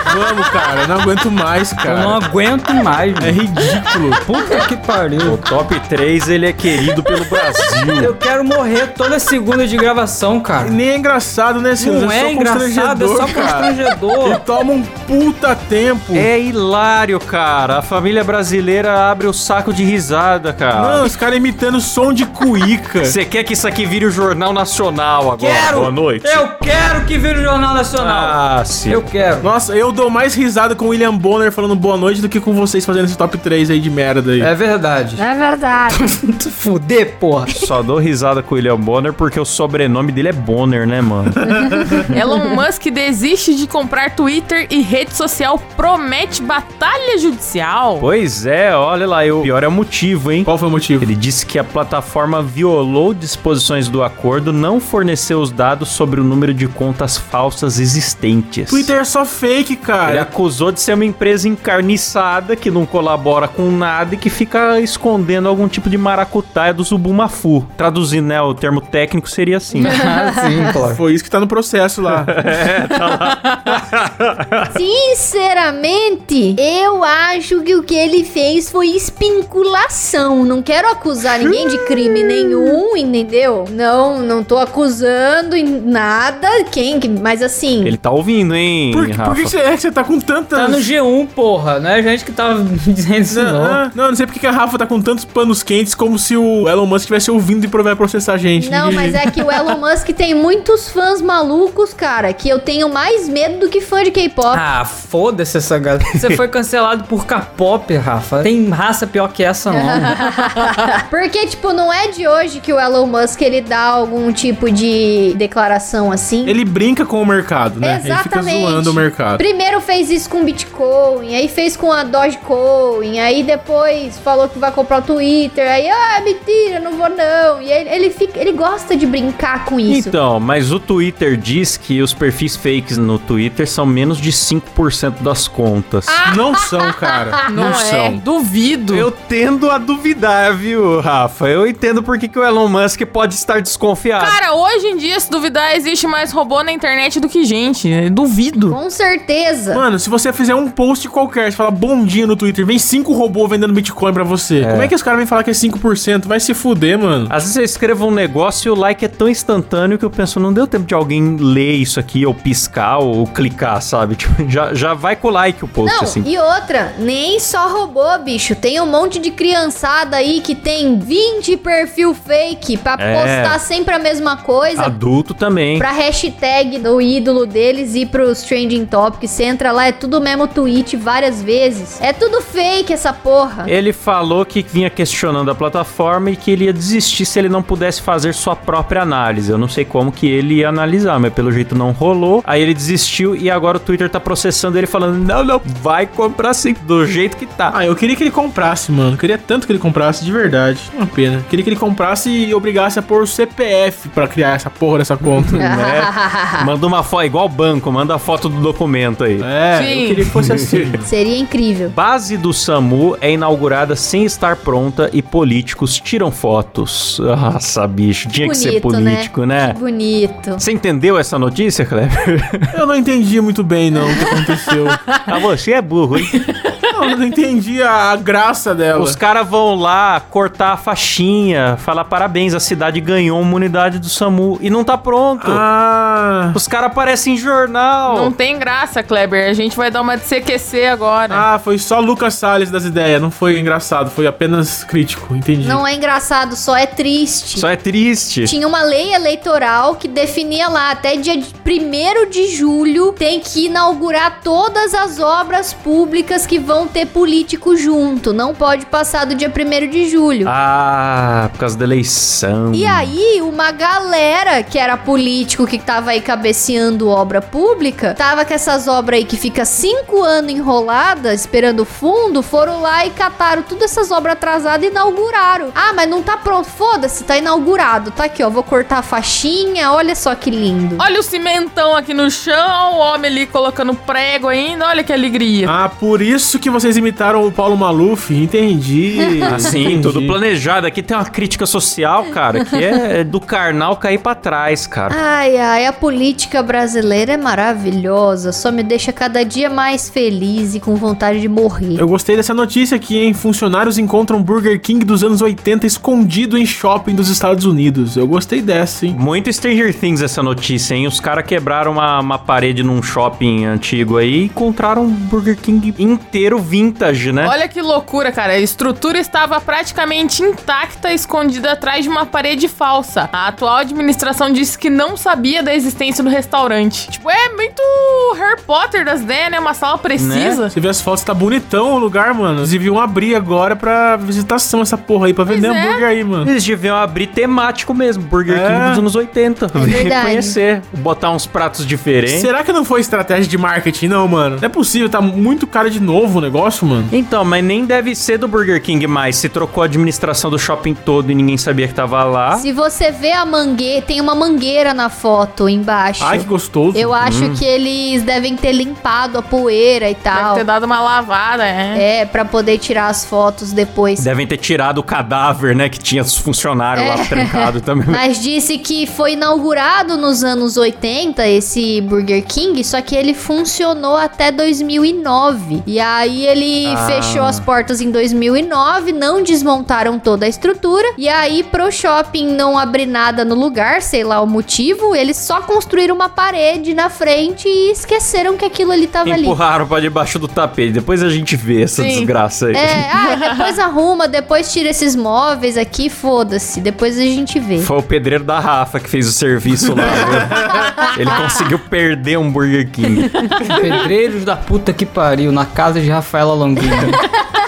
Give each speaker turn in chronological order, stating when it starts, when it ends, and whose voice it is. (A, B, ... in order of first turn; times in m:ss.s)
0:00.1-0:02.1 A
0:01.8-0:03.4 B
0:03.2-0:04.2 A
0:04.2-0:05.4 B
0:05.2-0:08.1 C
0:07.9-0:10.8 B
0:10.6-0:13.7 A
0:11.8-0:14.4 B
0:14.2-0:16.3 A
0:16.1-0:21.1 C
0:20.8-0:23.2 A
0:23.0-0:26.5 C
0:25.4-0:29.5 B
0:28.0-0:29.1 C
0:29.4-0:34.5 A
0:34.4-0:35.3 B
0:35.2-0:36.0 D
0:35.9-0:37.7 B
0:37.5-0:41.4 C
0:41.6-0:42.0 A
0:42.1-0:48.1 E
0:48.0-0:58.9 C
0:50.5-0:51.1 A
0:58.7-1:00.3 A
1:00.0-1:10.0 C
1:09.7-1:11.0 B
1:09.9-1:10.7 D
1:10.9-1:12.3 A
1:12.3-1:14.7 C
1:14.7-1:28.0 D
1:27.8-1:29.5 C
1:28.9-1:30.8 A
1:30.5-1:33.9 B
1:33.3-1:39.0 A
1:38.6-1:44.6 D
1:44.5-1:50.7 B
1:49.7-1:56.6 D
1:56.5-1:59.4 A
1:57.8-2:10.1 D
2:09.9-2:16.2 C
2:16.1-2:17.8 D
2:16.3-2:17.3 A
2:17.5-2:19.1 E
2:17.6-2:18.2 C
2:18.9-2:24.4 C
2:24.2-2:28.8 E
2:28.7-2:29.8 D
2:29.8-2:37.3 A
2:34.6-2:34.9 C
2:37.3-2:46.3 C
2:45.8-2:54.9 D
2:53.0-2:53.6 C
2:54.7-2:55.9 C
2:55.8-3:03.7 D
3:03.7-3:17.8 C
3:17.7-3:25.6 A
3:25.2-3:29.5 C
3:25.6-3:26.7 D
3:29.4-3:31.0 A
3:29.8-3:30.3 E
3:30.3-3:31.0 C
3:31.0-3:32.0 D
3:31.9-3:39.8 C
3:38.4-3:40.6 D
3:40.6-3:42.8 C
3:42.8-3:45.0 A
3:44.0-3:44.4 E
3:45.2-3:46.4 C
3:46.3-3:46.6 E
3:47.0-3:49.2 A
3:48.9-3:55.6 C
3:55.4-3:56.6 A
3:56.5-3:58.3 C
3:58.1-4:01.5 E
4:01.3-4:05.8 A
4:05.6-4:07.7 D
4:07.6-4:08.5 C
4:08.4-4:20.5 D
4:20.4-4:23.1 C
4:22.7-4:41.0 D
4:41.0-4:45.8 E
4:45.7-4:50.4 A
4:49.2-4:49.8 D
4:49.4-4:55.2 C
4:55.1-5:02.0 D
5:02.0-5:09.2 A
5:09.1-5:17.5 C
5:17.4-5:30.7 E
5:30.2-5:30.6 C
5:30.7-5:36.5 A
5:35.5-5:36.0 E
5:36.4-5:42.5 C
5:38.5-5:39.0 A
5:39.8-5:40.6 D
5:42.3-5:47.1 A
5:47.1-5:52.7 C
5:52.6-6:00.6 D
5:56.2-5:57.2 A
5:57.2-5:57.6 C
6:00.3-6:02.0 E
6:01.9-6:04.3 D
6:04.2-6:08.2 C
6:07.0-6:29.6 D
6:16.8-6:17.7 C
6:29.2-6:33.0 C
6:32.0-6:32.3 E
6:32.7-6:37.9 D
6:33.3-6:33.7 E
6:37.8-6:43.3 C
6:43.3-6:47.2 B